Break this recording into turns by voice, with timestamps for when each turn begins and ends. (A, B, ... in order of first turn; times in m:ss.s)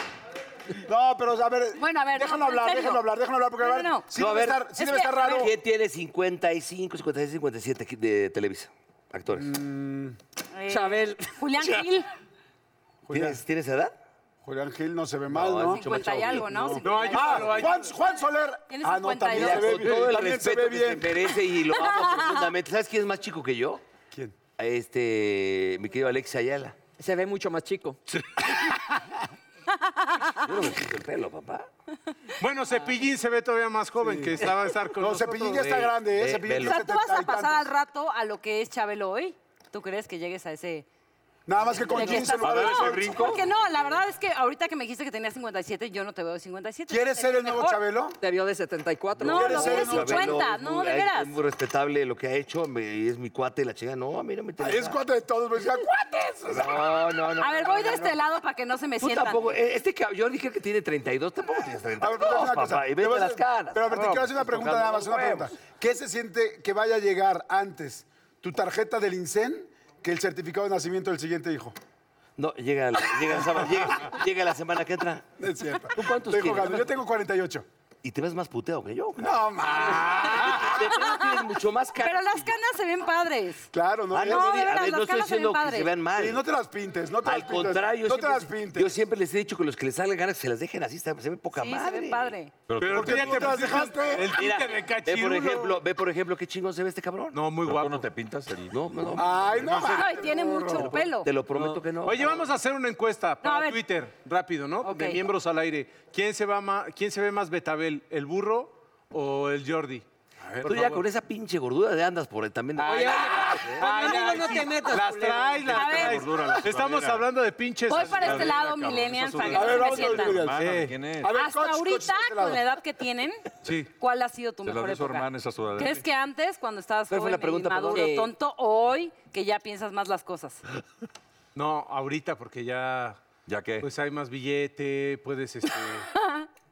0:00.8-0:05.5 A
0:01.8-0:03.0 B
0:03.6-0:04.1 B
0:04.1-0:04.7 C
0:04.7-0:05.5 B
0:05.2-0:09.5 C
0:09.3-0:10.2 A
0:10.5-0:12.1 B
0:10.7-0:11.3 D
0:11.6-0:11.8 C
0:13.1-0:13.4 A
0:13.1-0:13.9 C
0:14.4-0:21.2 A
0:15.3-0:16.8 C
0:15.7-0:17.8 B
0:16.8-0:17.9 E
0:18.7-0:19.9 B
0:19.3-0:23.8 C
0:21.7-0:22.5 B
0:24.6-0:26.8 C
0:27.0-0:28.0 D
0:29.8-0:30.4 B
0:30.4-0:31.7 C
0:32.4-0:35.9 E
0:34.0-0:34.3 A
0:35.0-0:37.7 A
0:35.6-0:36.8 C
0:36.6-0:40.8 B
0:41.5-0:43.4 A
0:41.9-0:47.8 B
0:42.2-0:43.5 F
0:46.9-0:48.2 A
0:48.2-0:49.9 D
0:49.2-0:51.4 B
0:49.2-0:50.4 A
0:49.3-0:55.0 C
0:54.6-0:56.9 A
0:56.5-0:58.2 C
0:57.4-0:59.5 B
0:59.0-1:05.5 C
1:02.0-1:11.7 A
1:03.9-1:04.3 E
1:12.4-1:15.2 C
1:15.4-1:17.6 A
1:15.8-1:16.9 C
1:18.0-1:22.5 C
1:19.2-1:20.9 A
1:19.8-1:21.4 B
1:22.0-1:25.9 B
1:23.7-1:24.6 A
1:24.1-1:26.4 C
1:26.1-1:28.9 A
1:27.2-1:32.3 C
1:31.5-1:32.5 B
1:32.7-1:33.6 F
1:32.8-1:35.8 E
1:32.9-1:34.4 A
1:34.3-1:37.4 C
1:37.3-1:38.1 E
1:37.6-1:40.1 F
1:38.7-1:40.0 C
1:39.2-1:41.0 A
1:39.8-1:41.3 B
1:40.6-1:42.4 C
1:41.6-1:51.0 E
1:43.4-1:43.8 B
1:44.8-1:45.2 B
1:50.6-1:53.8 C
1:52.8-1:58.6 E
1:52.8-1:55.9 D
1:55.7-1:57.2 F
1:55.7-1:56.3 B
1:57.9-2:00.4 B
1:57.9-2:01.3 F
1:59.5-2:02.6 A
2:00.5-2:01.0 E
2:01.3-2:10.6 B
2:03.6-2:03.9 E
2:04.6-2:06.0 F
2:07.1-2:08.2 C
2:07.9-2:08.3 D
2:11.5-2:13.2 E
2:13.4-2:13.8 F
2:13.8-2:16.1 E
2:16.1-2:16.5 B